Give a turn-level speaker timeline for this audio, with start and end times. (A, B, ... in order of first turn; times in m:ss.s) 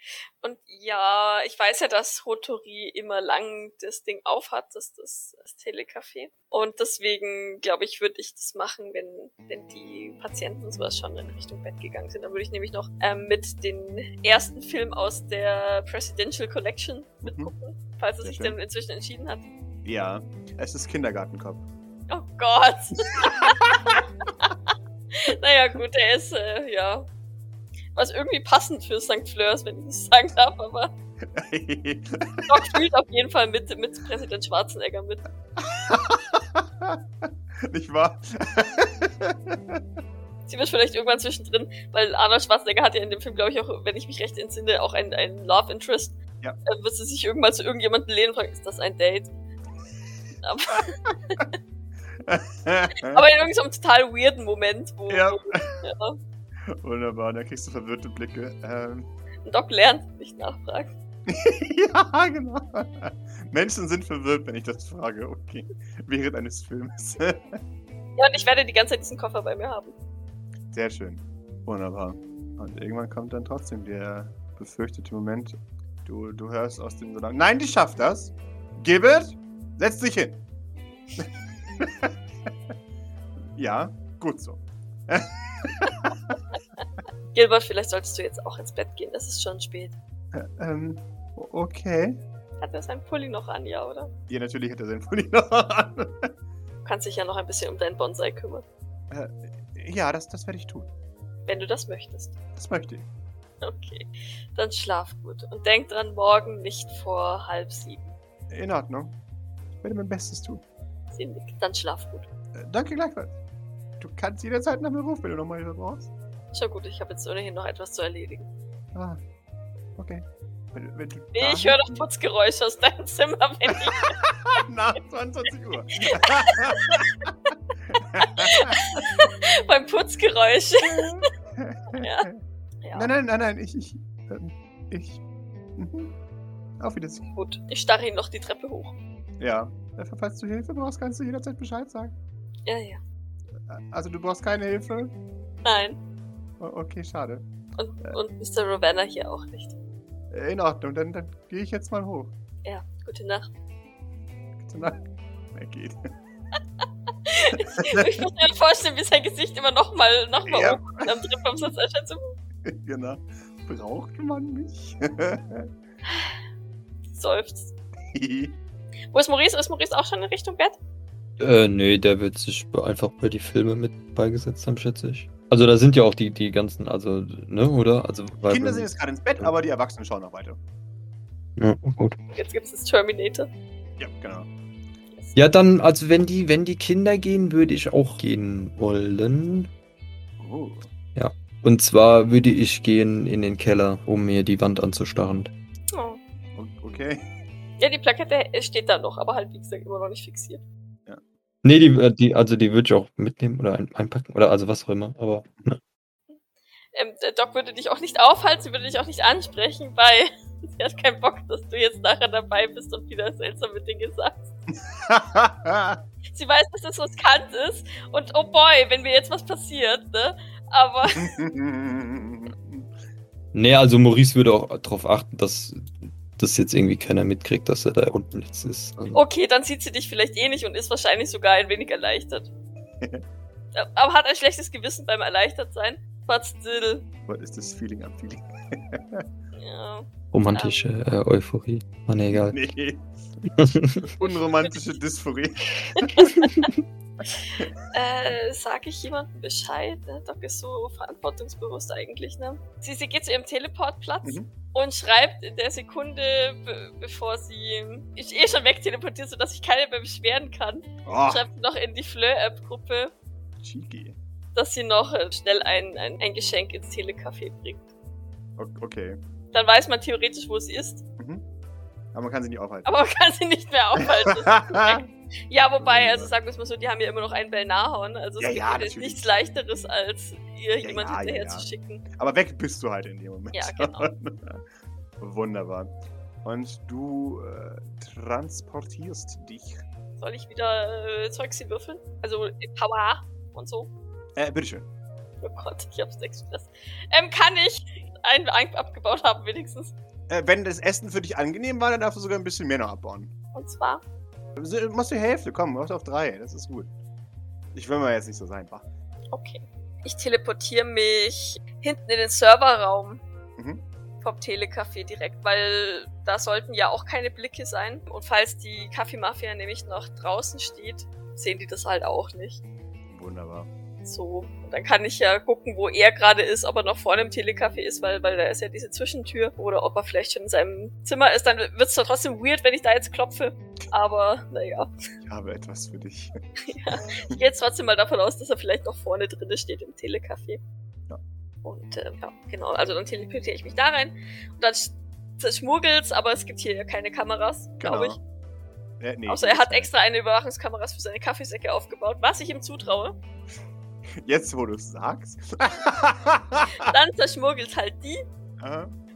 0:00.4-0:19.4 A
0:17.2-0:17.5 B
0:18.2-0:18.6 B
0:19.8-0:21.6 B
0:22.1-0:23.8 A
0:23.1-0:24.0 B
0:25.1-0:27.1 A
0:27.9-0:30.9 A
0:31.3-0:32.8 B
0:32.5-0:35.2 A
0:35.6-0:39.8 B
0:40.5-0:49.3 A
0:50.4-0:51.5 A
0:52.2-0:53.2 B
0:53.0-0:56.2 A
0:55.1-0:55.8 B
0:56.6-0:59.1 B
0:59.4-1:00.9 A
1:01.3-1:07.6 B
1:08.2-1:09.9 A
1:10.7-1:20.4 B
1:21.2-1:22.5 B
1:23.5-1:26.4 B
1:27.3-1:29.9 A
1:30.3-1:32.2 B
1:32.6-1:34.1 A
1:34.3-1:36.3 B
1:36.8-1:38.6 A
1:39.1-1:40.9 B
1:41.5-1:42.3 A
1:42.6-1:43.1 B
1:43.6-1:48.1 A
1:48.5-1:49.2 B
1:49.8-1:50.6 B
1:51.1-1:52.3 A
1:52.5-1:53.4 B
1:54.0-1:56.1 B
1:56.5-1:58.5 A
1:58.9-1:59.2 B
2:00.0-2:02.0 B
2:01.3-2:04.2 A
2:03.7-2:07.3 B
2:06.0-2:07.1 A
2:07.9-2:09.0 B
2:08.2-2:11.2 A
2:10.8-2:12.4 B
2:12.0-2:12.3 A
2:12.8-2:13.1 A
2:12.9-2:15.2 B
2:15.8-2:16.1 B
2:16.8-2:17.2 B
2:17.3-2:18.9 A
2:19.4-2:22.1 B
2:22.7-2:23.0 A
2:23.6-2:25.1 B
2:25.6-2:26.0 A
2:26.6-2:27.4 B
2:27.8-2:29.8 A
2:30.3-2:32.3 B
2:32.6-2:33.5 A
2:34.6-2:35.0 B
2:35.5-2:36.1 B
2:37.2-2:42.3 A
2:37.5-2:38.2 B
2:40.5-2:41.4 B
2:42.6-2:45.7 B
2:46.1-2:46.3 A
2:47.1-2:47.7 A
2:48.1-2:48.6 B
2:49.1-2:50.8 A
2:51.4-2:58.9 C
2:58.5-3:00.6 B
3:01.6-3:02.2 C
3:02.3-3:03.5 A
3:04.0-3:04.5 B
3:05.3-3:09.7 C
3:10.4-3:10.9 B
3:11.2-3:15.5 C
3:15.9-3:16.2 A
3:16.5-3:17.3 B
3:17.8-3:20.6 A
3:21.6-3:25.8 C
3:26.9-3:34.5 A
3:34.7-3:36.0 B
3:36.3-3:41.4 A
3:41.1-3:42.9 B
3:43.5-3:49.2 C
3:49.1-3:52.5 A
3:53.7-3:57.0 A
3:57.3-3:59.2 B
3:59.5-4:00.8 A
4:00.3-4:02.6 C
4:02.3-4:03.0 B
4:03.6-4:04.0 C
4:04.0-4:06.5 B
4:05.9-4:06.7 A
4:07.4-4:23.1 A
4:14.2-4:14.5 B
4:21.0-4:21.4 B
4:23.6-4:24.2 B
4:24.5-4:27.9 A
4:28.6-4:29.2 B
4:29.5-4:31.0 A
4:31.2-4:31.4 B
4:32.1-4:32.9 B
4:32.8-4:42.0 A
4:34.0-4:35.0 B
4:35.8-4:36.3 B
4:38.4-4:39.3 B
4:40.8-4:44.6 B
4:43.5-4:44.1 A
4:45.2-4:49.8 B
4:50.2-4:53.9 A
4:54.4-4:54.9 B
4:55.4-4:59.9 A
5:00.3-5:03.3 B
5:03.5-5:04.0 A
5:04.6-5:06.9 B
5:07.7-5:08.8 B
5:09.3-5:13.2 A
5:13.6-5:13.8 B
5:14.2-5:22.6 A
5:23.1-5:23.7 B
5:24.0-5:34.9 A
5:35.2-5:37.4 B
5:36.6-5:40.6 A
5:41.6-5:48.2 A
5:47.8-5:48.2 B
5:49.0-5:49.9 B
5:49.3-5:53.2 A
5:54.1-5:56.9 B
5:56.7-5:58.2 A
5:58.6-5:58.9 B